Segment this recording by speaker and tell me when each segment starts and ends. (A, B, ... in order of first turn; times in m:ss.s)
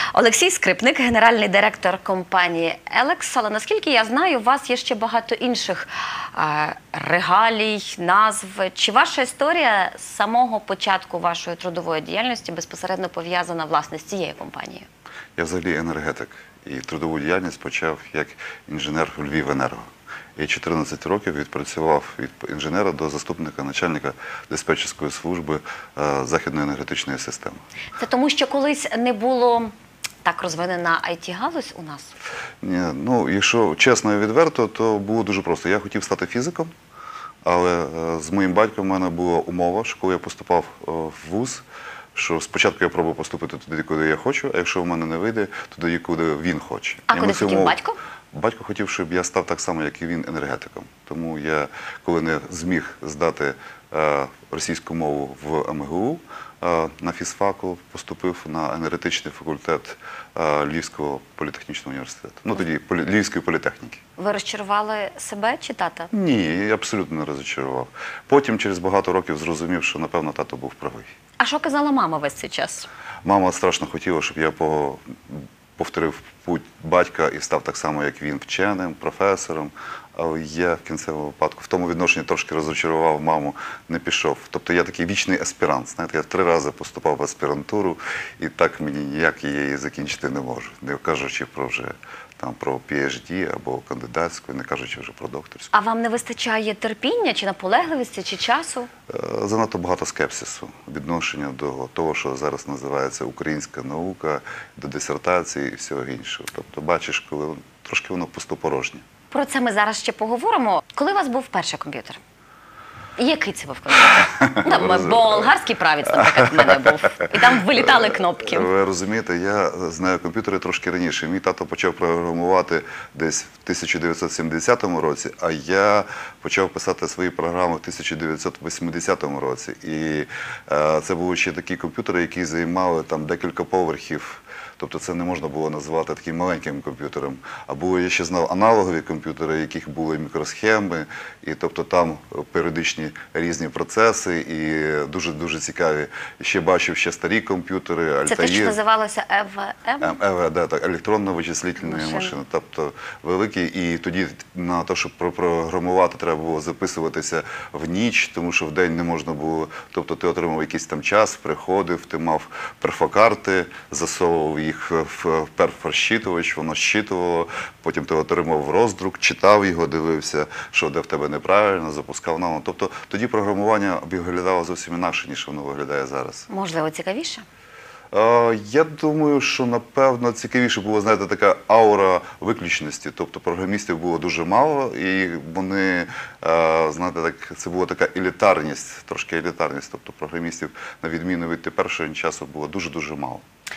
0:00.1-0:14.9 A
0:15.4-0:27.6 B
0:28.0-0:29.7 A
0:30.2-0:32.1 A
0:32.6-0:36.7 B
0:37.4-0:41.6 B
0:42.2-0:47.8 B
0:47.1-0:48.0 A
0:48.3-1:04.0 B
1:04.2-1:06.1 A
1:06.1-1:11.1 B
1:11.4-1:12.9 A
1:13.2-1:35.7 B
1:35.7-1:38.9 A
1:39.1-1:49.0 B
1:49.3-1:52.2 A
1:53.2-1:58.7 A
1:54.1-1:55.5 B
1:56.6-2:28.8 B
2:28.3-2:30.1 A
2:30.0-2:56.5 B
2:31.8-2:32.4 A
2:56.5-2:57.4 A
2:58.1-3:13.4 B